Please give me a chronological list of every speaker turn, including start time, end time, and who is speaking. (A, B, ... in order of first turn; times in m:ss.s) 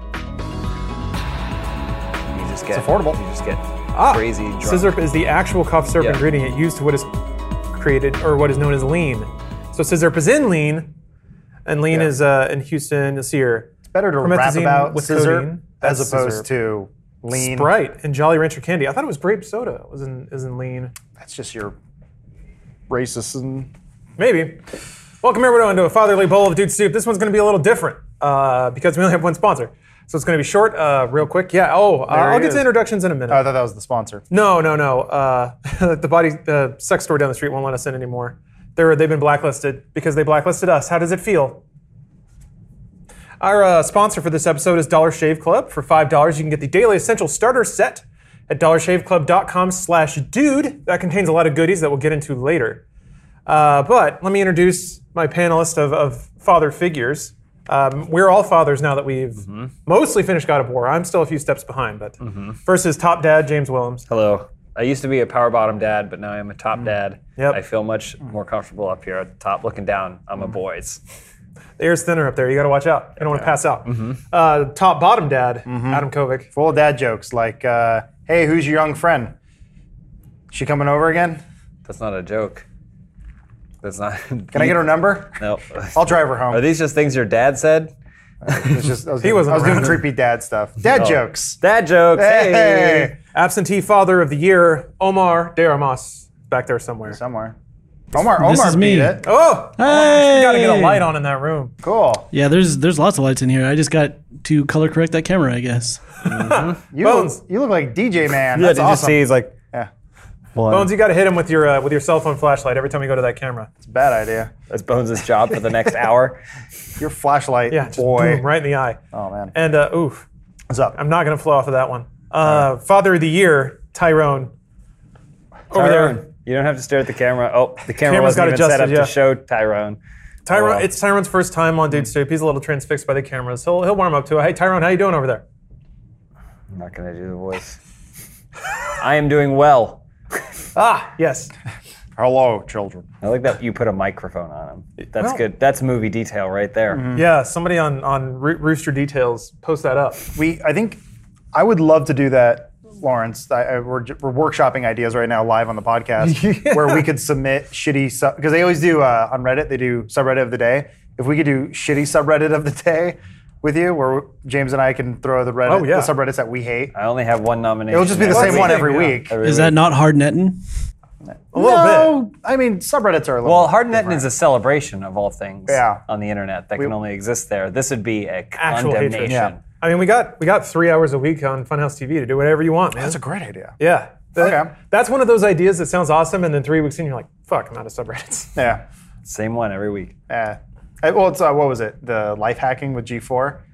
0:02.3-0:05.0 A
0:02.7-0:03.2 B
0:03.9-0:07.1 C
0:07.7-0:10.9 C
0:11.7-0:16.5 C
0:13.9-0:17.7 B
0:17.3-0:20.9 C
0:21.2-0:21.8 B
0:22.9-0:23.7 B
0:24.2-0:24.6 C
0:25.2-0:33.4 C
0:32.1-0:32.7 B
0:33.3-0:34.2 B
0:34.3-0:41.6 C
0:43.4-0:52.8 C
0:53.5-1:04.0 C
1:02.2-1:02.6 A
1:04.1-1:11.0 A
1:11.8-1:16.5 C
1:13.9-1:14.2 A
1:15.7-1:19.3 B
1:20.5-1:21.4 B
1:21.9-1:22.6 A
1:23.8-1:27.9 A
1:24.5-1:25.4 B
1:25.9-1:26.6 B
1:28.4-1:31.6 B
1:28.5-1:28.9 A
1:29.2-1:30.0 C
1:31.0-1:33.1 A
1:32.2-1:33.2 B
1:33.3-1:37.2 C
1:37.1-1:37.6 B
1:38.1-1:39.2 B
1:38.4-1:39.2 D
1:39.2-1:41.7 C
1:39.8-1:41.1 D
1:41.8-1:42.3 B
1:42.3-1:46.1 D
1:46.2-1:47.4 C
1:46.3-1:46.8 A
1:46.9-1:49.9 B
1:48.5-1:49.6 A
1:50.6-1:50.9 A
1:50.7-1:53.7 C
1:53.8-1:54.5 B
1:54.7-1:56.4 A
1:57.0-1:58.4 B
1:57.7-1:59.0 C
1:59.1-1:59.5 B
1:59.5-2:00.3 C
2:00.7-2:01.0 B
2:00.9-2:04.5 C
2:05.7-2:06.2 C
2:05.7-2:10.8 A
2:08.0-2:09.1 C
2:10.5-2:15.4 C
2:16.7-2:17.8 A
2:19.0-2:20.0 A
2:20.8-2:21.5 C
2:22.2-2:23.1 B
2:23.2-2:27.0 A
2:26.9-2:27.2 B
2:27.1-2:30.3 C
2:30.4-2:31.0 B
2:31.5-2:46.9 B
2:36.3-2:37.0 C
2:45.7-2:46.1 C
2:46.9-2:49.8 A
2:47.9-2:49.4 B
2:48.3-2:49.2 C
2:49.4-2:50.6 D
2:51.3-2:54.2 B
2:51.5-2:52.2 C
2:53.4-2:59.6 A
2:55.7-2:56.0 B
2:58.6-3:03.2 C
2:59.3-2:59.5 B
3:03.0-3:03.8 B
3:03.8-3:08.6 C
3:04.4-3:04.7 B
3:08.6-3:08.8 B
3:09.2-3:10.2 A
3:10.3-3:13.6 B